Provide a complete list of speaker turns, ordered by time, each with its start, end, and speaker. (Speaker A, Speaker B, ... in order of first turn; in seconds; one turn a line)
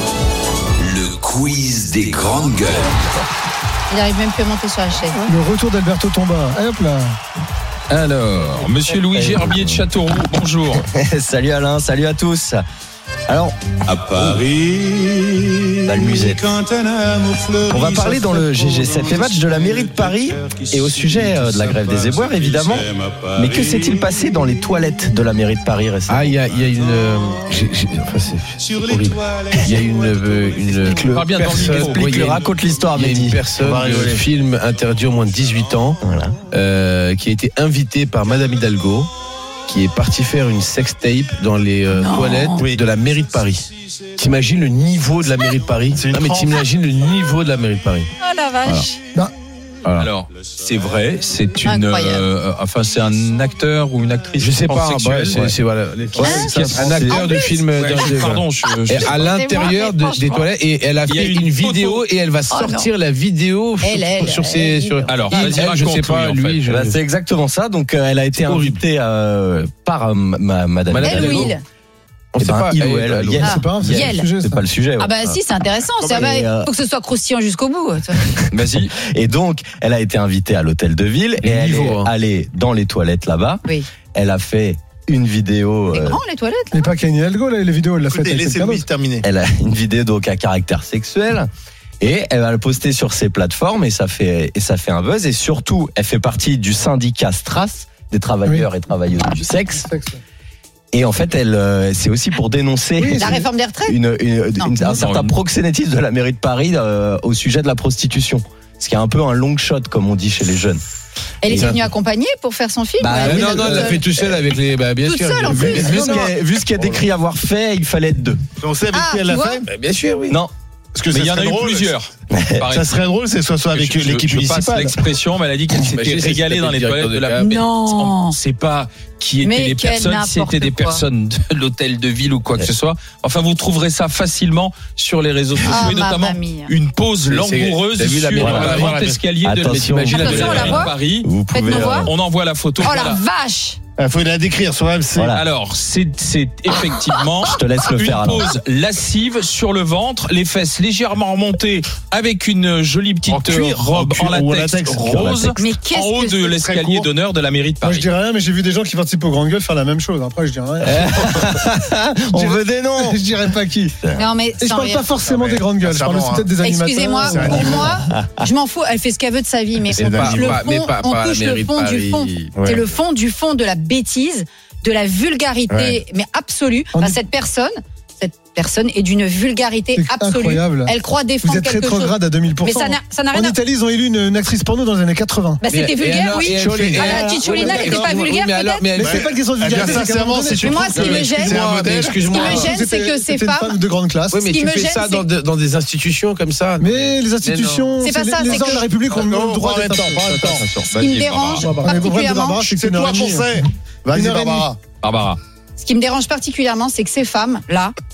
Speaker A: 0.8-2.9
Speaker B: 3.9-5.3
Speaker C: 5.3-7.2
Speaker D: 7.9-10.8
Speaker E: 9.1-9.9
Speaker E: 10.7-12.6
Speaker E: 13.3-14.4
Speaker F: 14.6-15.7
Speaker E: 15.9-16.6
Speaker F: 16.6-24.0
Speaker E: 17.7-26.4
Speaker G: 26.1-39.1
Speaker F: 28.7-31.0
Speaker E: 30.9-33.5
Speaker D: 31.1-32.2
Speaker H: 33.6-34.2
Speaker F: 35.2-35.6
Speaker E: 36.0-36.4
Speaker G: 39.7-48.1
Speaker B: 41.9-42.7
Speaker H: 45.9-46.6
Speaker B: 48.2-49.0
Speaker G: 49.9-50.1
Speaker D: 50.0-55.6
Speaker B: 51.6-52.3
Speaker G: 54.4-67.0
Speaker E: 56.2-57.3
Speaker B: 56.2-58.1
Speaker D: 57.7-59.2
Speaker B: 59.0-60.5
Speaker D: 61.0-62.0
Speaker B: 62.5-62.9
Speaker B: 63.8-65.6
Speaker D: 65.1-66.6
Speaker E: 66.7-71.5
Speaker G: 68.4-68.8
Speaker G: 70.9-71.5
Speaker B: 71.0-71.6
Speaker G: 72.3-73.5
Speaker E: 72.4-75.3
Speaker B: 73.4-74.3
Speaker C: 73.4-74.7
Speaker B: 75.0-78.3
Speaker E: 76.0-76.7
Speaker D: 78.5-78.9
Speaker E: 79.0-86.2
Speaker G: 81.4-82.1
Speaker B: 85.9-86.8
Speaker C: 86.7-88.9
Speaker H: 88.1-89.2
Speaker E: 89.2-91.5
Speaker E: 92.0-99.8
Speaker C: 99.8-100.2
Speaker E: 100.9-110.8
Speaker C: 103.0-103.4
Speaker B: 103.2-104.0
Speaker D: 104.8-105.3
Speaker B: 111.4-114.1
Speaker G: 111.5-111.9
Speaker E: 113.0-114.0
Speaker G: 113.2-116.3
Speaker B: 115.0-116.3
Speaker E: 115.5-118.4
Speaker H: 118.6-119.7
Speaker B: 118.9-119.6
Speaker G: 119.7-120.4
Speaker E: 120.3-120.5
Speaker H: 120.9-122.0
Speaker D: 121.1-123.0
Speaker E: 122.3-122.6
Speaker H: 122.7-125.0
Speaker D: 123.7-141.3
Speaker G: 125.8-127.7
Speaker B: 127.4-128.4
Speaker B: 129.4-131.0
Speaker B: 135.7-136.7
Speaker G: 137.3-140.7
Speaker E: 138.4-142.1
Speaker B: 140.1-141.0
Speaker B: 141.5-142.1
Speaker D: 141.8-143.2
Speaker B: 142.8-143.8
Speaker H: 144.0-145.4
Speaker E: 145.2-145.4
Speaker D: 145.3-158.1
Speaker E: 147.4-148.5
Speaker H: 153.3-155.2
Speaker E: 155.0-155.6
Speaker B: 155.6-156.6
Speaker H: 156.6-157.1
Speaker C: 157.8-161.4
Speaker E: 160.8-164.2
Speaker C: 162.3-163.9
Speaker B: 164.2-165.1
Speaker C: 164.6-167.9
Speaker H: 165.2-166.6
Speaker B: 166.6-183.6
Speaker H: 167.2-168.0
Speaker G: 169.9-172.7
Speaker H: 170.0-170.6
Speaker H: 172.5-172.8
Speaker H: 175.7-176.0
Speaker C: 176.9-177.2
Speaker C: 180.0-185.7
Speaker B: 185.6-188.9
Speaker G: 185.7-189.2
Speaker C: 187.2-188.2
Speaker C: 188.9-191.6
Speaker H: 189.0-192.7
Speaker B: 190.6-191.6
Speaker G: 190.9-192.7
Speaker B: 192.3-193.8
Speaker C: 192.6-194.5
Speaker G: 194.3-197.9
Speaker B: 194.5-195.3
Speaker C: 196.8-200.6
Speaker B: 198.0-198.9
Speaker H: 199.1-200.8
Speaker D: 200.4-201.7
Speaker B: 200.9-202.6
Speaker C: 201.6-204.7
Speaker H: 202.6-204.8
Speaker D: 205.0-205.4
Speaker B: 205.8-207.9